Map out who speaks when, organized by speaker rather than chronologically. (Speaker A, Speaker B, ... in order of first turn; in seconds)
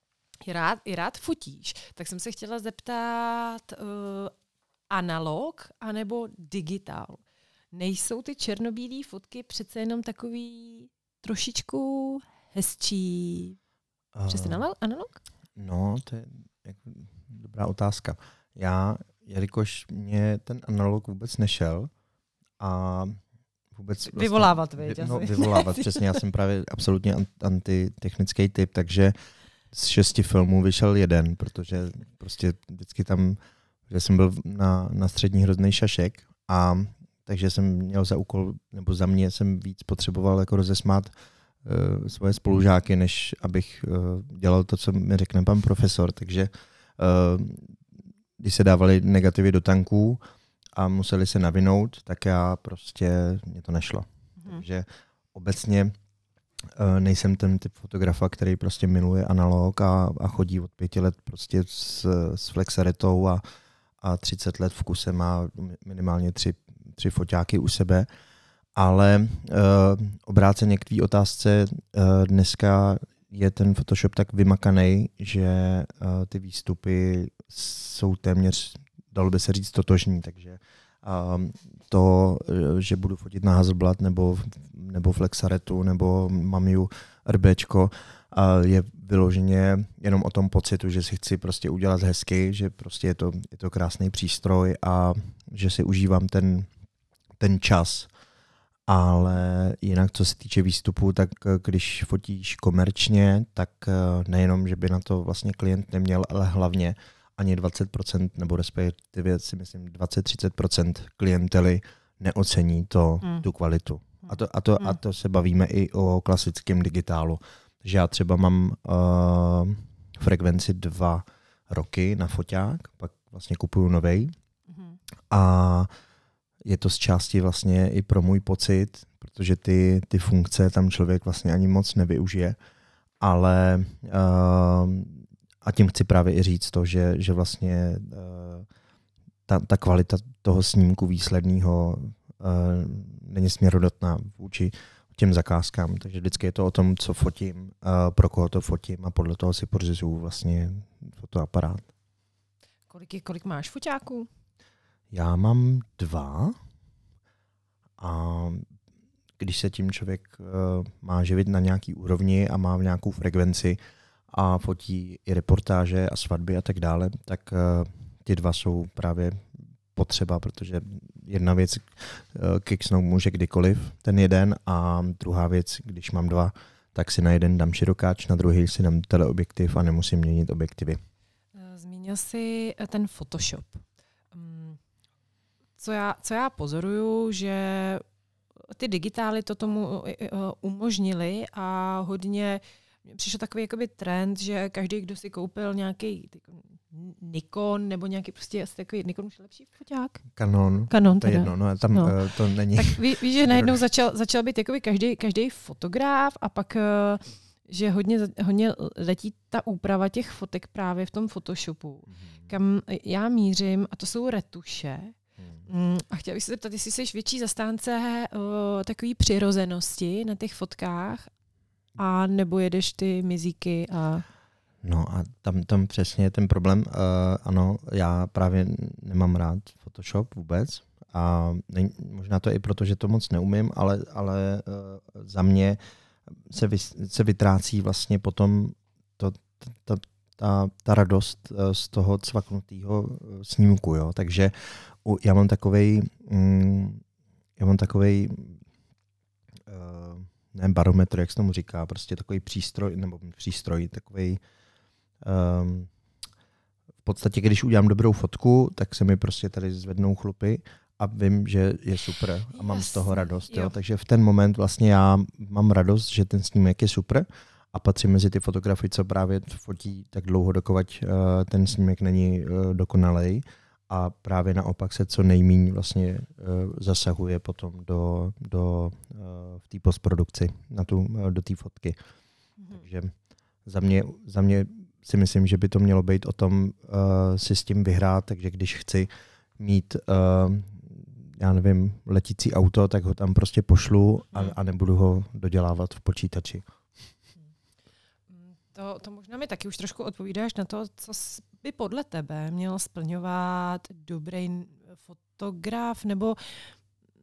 Speaker A: 0.4-4.3, 4.9-13.6, 14.3-15.2, 24.1-26.2, 54.4-54.6, 114.3-115.0, 124.7-125.0, 152.9-154.3, 181.5-184.8, 185.8-188.0, 188.7-200.2, 200.9-202.2, 202.7-221.3, 222.0-224.2, 262.5-263.8, 282.6-282.9, 298.3-306.7
Speaker B: 14.2-14.6, 15.6-21.9, 22.6-23.2, 23.7-29.1, 29.7-41.1, 41.6-47.8, 48.4-50.2, 50.8-56.0, 56.7-63.4, 64.0-68.1, 68.8-96.7, 97.4-98.1, 98.9-124.3, 125.3-125.9, 126.6-132.6, 133.2-138.7, 139.5-151.9, 155.1-156.6, 158.0-158.7, 159.4-181.0, 200.4-203.8, 212.1-212.5, 215.4-215.7, 224.8-235.8, 236.5-247.0, 247.6-248.6, 249.7-254.4, 255.2-255.9, 257.0-282.0, 282.7-283.1, 283.6-296.6